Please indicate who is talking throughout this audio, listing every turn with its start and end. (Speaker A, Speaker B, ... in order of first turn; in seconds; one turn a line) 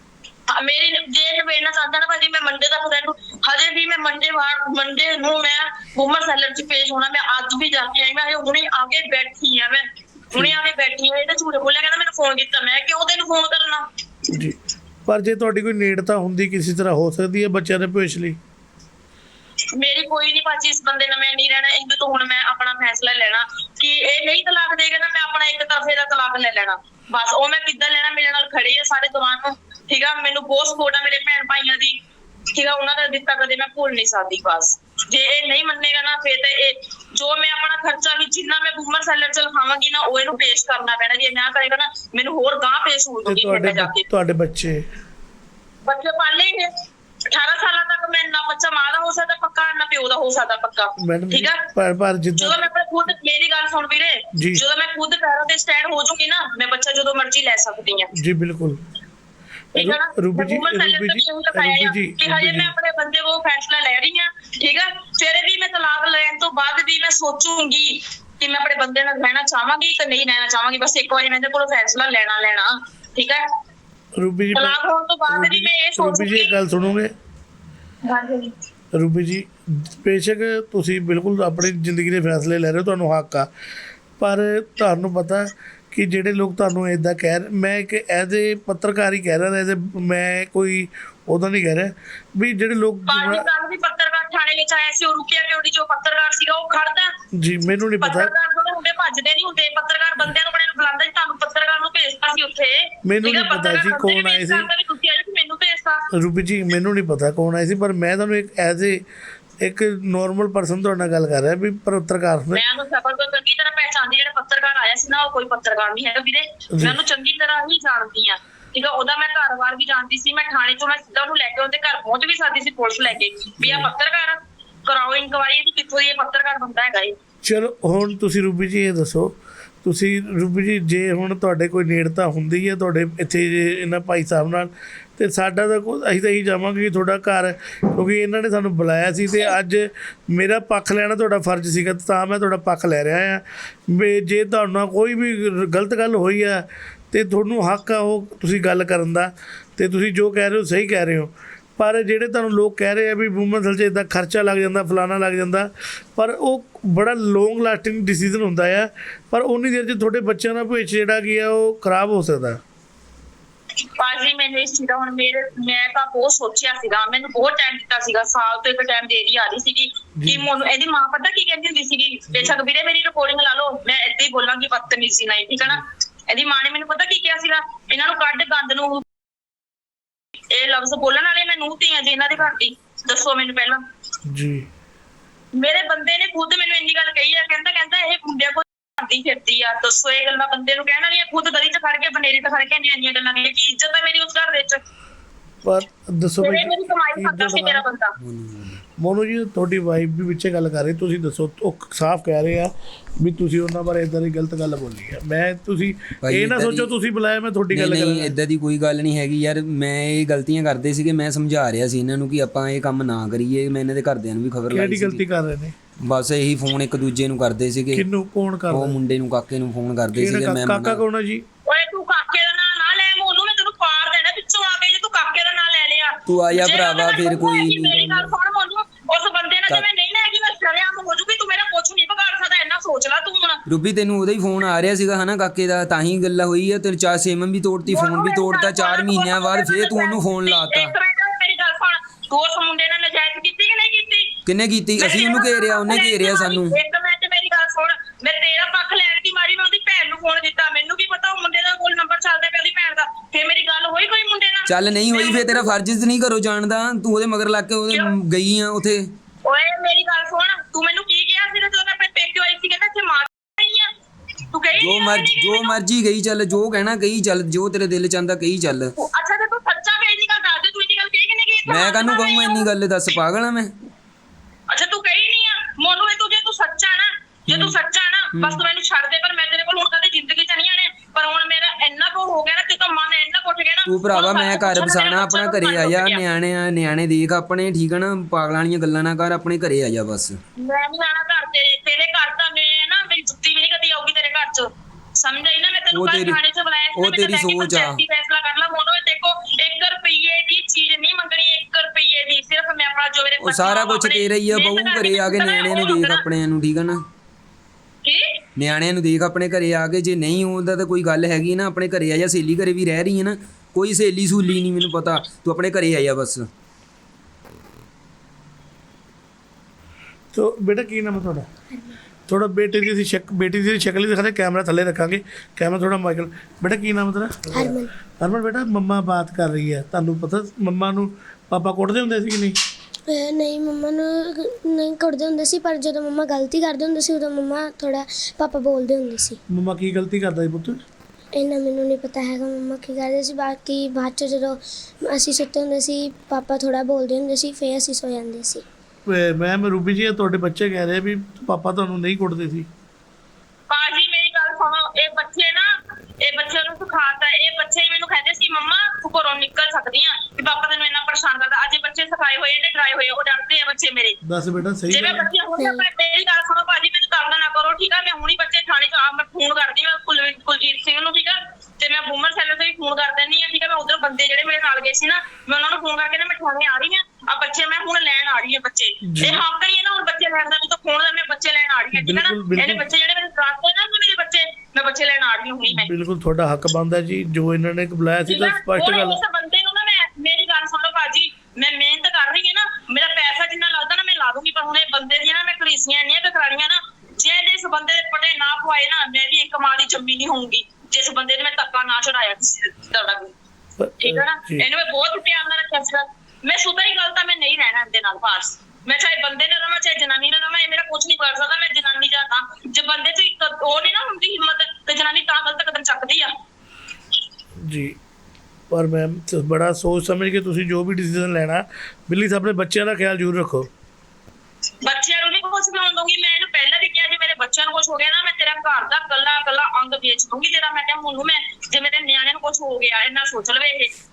Speaker A: 0.5-13.8
Speaker B: 14.3-18.4
Speaker A: 19.8-32.0
Speaker A: 32.5-44.0
Speaker B: 43.2-44.8
Speaker A: 45.9-46.7
Speaker A: 47.3-51.6
Speaker B: 51.0-52.6
Speaker A: 52.4-58.1
Speaker B: 54.4-54.6
Speaker B: 58.1-58.8
Speaker A: 59.7-73.5
Speaker B: 59.8-62.7
Speaker B: 74.2-74.8
Speaker A: 74.5-76.5
Speaker B: 75.3-77.1
Speaker A: 78.0-78.5
Speaker B: 78.9-83.5
Speaker B: 84.2-93.5
Speaker A: 93.1-97.1
Speaker B: 97.3-98.3
Speaker A: 98.0-106.1
Speaker B: 103.0-104.7
Speaker B: 106.1-109.0
Speaker B: 109.6-112.6
Speaker A: 112.5-127.2
Speaker B: 123.6-123.9
Speaker B: 127.4-162.6
Speaker A: 164.0-179.1
Speaker B: 170.2-170.4
Speaker A: 180.5-183.8
Speaker B: 184.3-184.7
Speaker A: 185.6-194.8
Speaker B: 195.6-197.8
Speaker A: 196.4-198.2
Speaker C: 198.2-198.8
Speaker B: 199.0-208.3
Speaker C: 206.2-206.9
Speaker C: 207.7-215.2
Speaker B: 214.7-215.7
Speaker C: 216.0-218.0
Speaker B: 217.9-219.0
Speaker C: 218.7-221.0
Speaker B: 220.1-221.4
Speaker A: 221.7-233.6
Speaker C: 226.3-228.2
Speaker C: 233.7-240.9
Speaker A: 237.9-244.4
Speaker C: 244.4-246.8
Speaker A: 245.0-255.7
Speaker C: 254.7-259.1
Speaker A: 259.4-263.9
Speaker A: 264.5-265.8
Speaker C: 264.8-268.9
Speaker A: 269.0-272.7
Speaker C: 271.7-273.7
Speaker A: 274.7-286.2
Speaker C: 277.5-277.8
Speaker C: 278.3-278.6
Speaker C: 283.9-290.4
Speaker A: 290.6-306.2
Speaker C: 295.9-296.4
Speaker C: 296.9-298.0
Speaker C: 303.4-307.0
Speaker A: 308.0-308.4
Speaker C: 308.6-316.4
Speaker B: 320.3-321.5
Speaker B: 322.3-332.6
Speaker D: 327.5-327.9
Speaker D: 333.1-339.4
Speaker B: 339.5-340.8
Speaker D: 341.3-348.6
Speaker B: 349.1-352.7
Speaker A: 353.7-364.2
Speaker B: 364.2-365.2
Speaker A: 364.9-385.9
Speaker D: 365.6-365.8
Speaker B: 379.0-379.4
Speaker B: 381.9-382.8
Speaker B: 385.7-389.2
Speaker A: 388.3-403.3
Speaker B: 403.8-404.7
Speaker A: 404.0-416.3
Speaker B: 417.6-417.9
Speaker B: 418.7-423.7
Speaker A: 424.8-433.9